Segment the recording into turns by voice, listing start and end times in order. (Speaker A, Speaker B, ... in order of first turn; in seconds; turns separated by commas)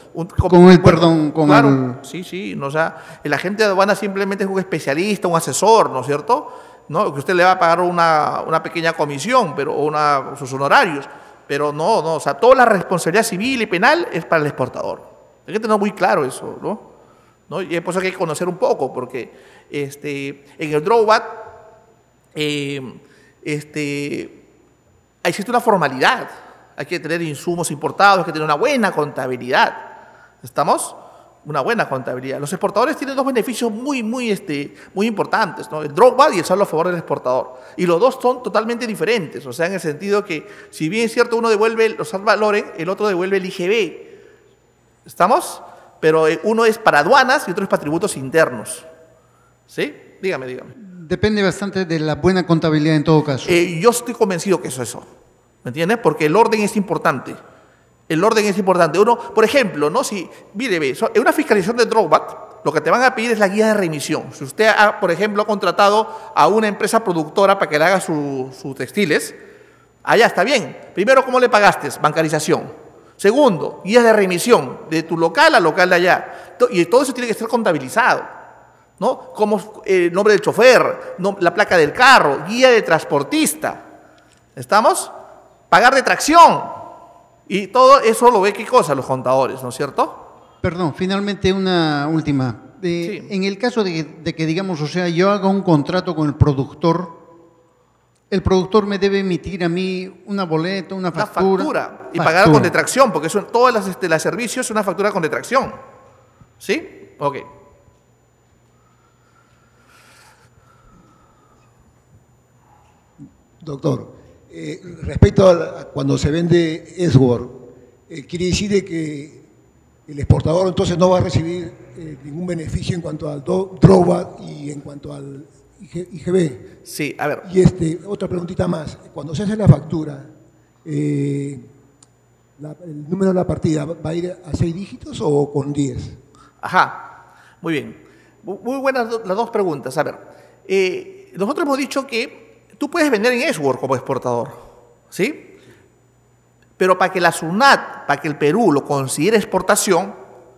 Speaker A: 0.1-16.9, Speaker B: 0.5-2.0, Speaker A: 17.5-21.5, Speaker A: 22.4-24.4, Speaker A: 25.2-29.9, Speaker A: 30.4-44.1, Speaker A: 45.1-48.9, Speaker A: 49.7-50.8, Speaker B: 50.8-53.6, Speaker A: 53.4-55.1, Speaker A: 55.6-57.4, Speaker A: 58.1-69.4, Speaker A: 70.0-78.3, Speaker A: 79.0-83.8, Speaker A: 84.6-85.1, Speaker A: 85.7-86.8, Speaker A: 87.5-90.3, Speaker B: 90.6-97.3, Speaker A: 93.0-93.3, Speaker B: 98.3-102.7, Speaker A: 101.1-105.8, Speaker A: 106.6-107.5, Speaker C: 113.6-119.5, Speaker C: 120.1-126.8, Speaker A: 126.8-127.5, Speaker C: 127.4-130.3, Speaker C: 130.8-131.7, Speaker C: 132.6-136.2, Speaker A: 136.6-145.6, Speaker A: 146.8-150.2